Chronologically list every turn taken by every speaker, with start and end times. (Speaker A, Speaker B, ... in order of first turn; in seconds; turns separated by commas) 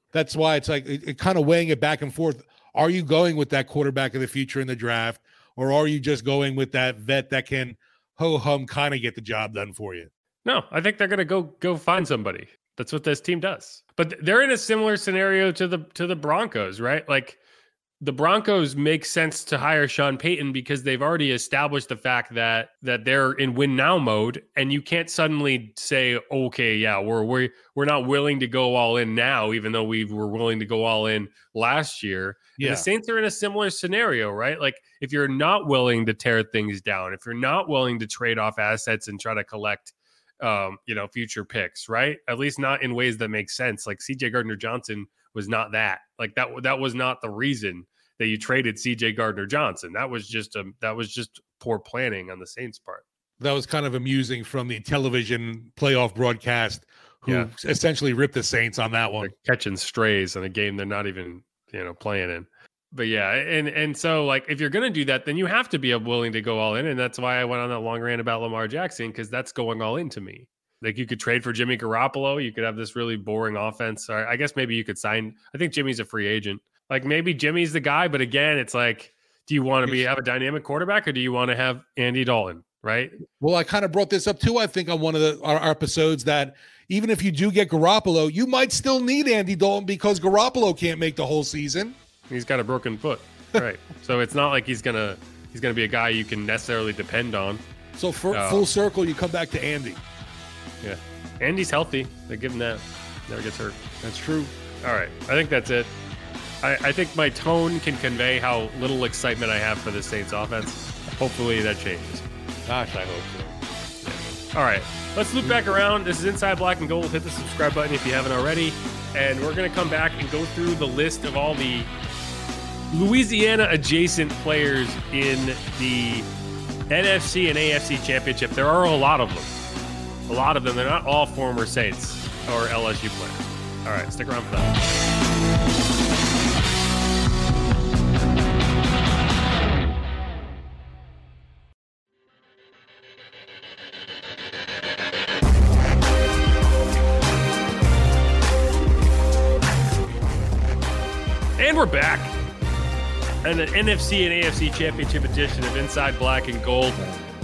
Speaker A: 0.1-10.1, Speaker B: 10.4-17.4, Speaker B: 18.0-53.0, Speaker A: 32.6-32.9, Speaker A: 53.4-59.3, Speaker B: 59.2-83.2, Speaker A: 83.4-92.0, Speaker B: 92.3-97.6, Speaker A: 98.0-100.0, Speaker B: 98.3-98.7, Speaker B: 100.8-103.8, Speaker A: 104.0-104.5, Speaker B: 104.8-105.9, Speaker B: 106.6-112.2, Speaker A: 112.7-113.6, Speaker B: 114.0-121.9, Speaker B: 122.9-126.3, Speaker B: 126.9-129.5, Speaker B: 130.3-134.8, Speaker B: 151.6-152.3, Speaker B: 153.4-157.0